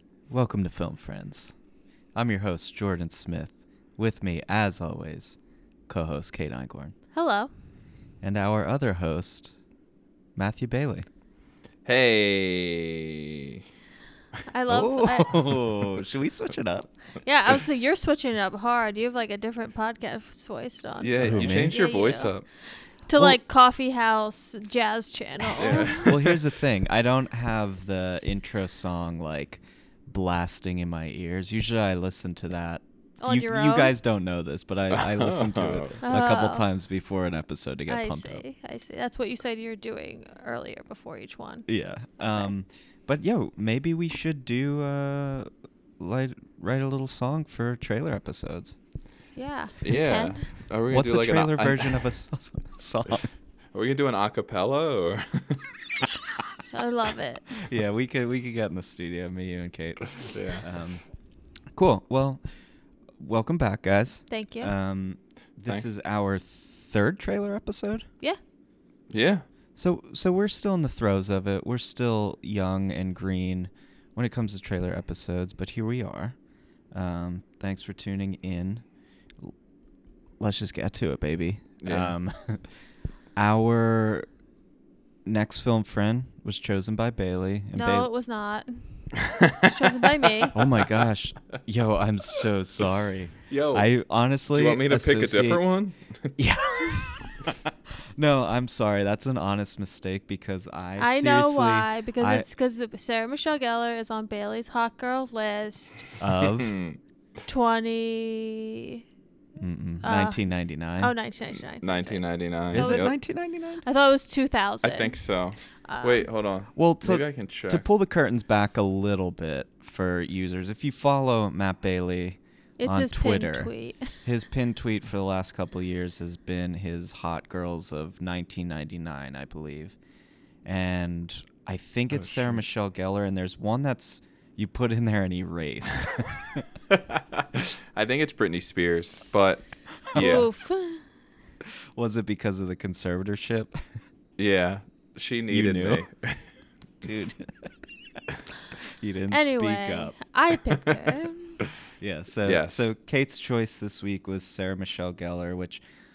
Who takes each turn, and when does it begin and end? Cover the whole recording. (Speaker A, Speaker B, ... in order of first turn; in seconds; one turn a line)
Speaker A: 0.3-1.5
Speaker A: 2.1-5.4
Speaker A: 5.9-6.9
Speaker B: 7.1-7.5
Speaker A: 8.2-9.5
Speaker A: 10.4-11.1
Speaker C: 11.8-13.6
Speaker B: 14.5-15.8
Speaker A: 14.7-16.9
Speaker B: 17.2-22.4
Speaker C: 21.0-22.5
Speaker A: 21.2-21.8
Speaker B: 23.1-26.3
Speaker C: 25.6-26.4
Speaker A: 25.6-38.4
Speaker B: 33.2-34.0
Speaker C: 34.9-36.0
Speaker B: 36.0-36.7
Speaker B: 37.9-41.7
Speaker A: 41.7-45.5
Speaker A: 46.0-48.8
Speaker B: 49.4-50.6
Speaker C: 49.8-52.1
Speaker A: 50.9-53.3
Speaker C: 53.7-56.1
Speaker B: 56.7-57.5
Speaker A: 57.6-61.0
Speaker C: 60.3-60.6
Speaker A: 61.8-62.4
Speaker A: 63.2-68.1
Speaker B: 64.3-64.7
Speaker C: 69.1-69.5
Speaker A: 69.8-76.4
Speaker A: 76.9-78.8
Speaker A: 80.4-82.6
Speaker C: 81.8-82.2
Speaker A: 83.4-84.3
Speaker A: 85.3-88.1
Speaker B: 87.8-90.6
Speaker C: 89.2-90.0
Speaker A: 90.5-95.6
Speaker C: 90.6-91.1
Speaker C: 93.5-93.9
Speaker C: 94.5-96.4
Speaker A: 96.4-102.5
Speaker B: 101.0-106.1
Speaker A: 106.2-106.8
Speaker C: 106.4-107.0
Speaker B: 107.5-109.0
Speaker A: 109.6-111.1
Speaker B: 110.0-110.4
Speaker B: 111.0-113.2
Speaker C: 111.8-113.1
Speaker A: 112.7-113.8
Speaker B: 113.8-115.2
Speaker C: 114.8-117.9
Speaker B: 115.9-116.3
Speaker A: 116.8-130.0
Speaker B: 122.8-124.1
Speaker A: 130.7-136.7
Speaker C: 132.1-132.6
Speaker C: 136.9-140.5
Speaker A: 140.1-140.4
Speaker B: 140.1-141.0
Speaker A: 142.0-143.8
Speaker C: 144.4-146.5
Speaker A: 145.5-146.1
Speaker A: 147.0-147.7
Speaker A: 149.0-150.2
Speaker B: 149.3-151.6
Speaker A: 152.0-155.8
Speaker C: 152.4-152.9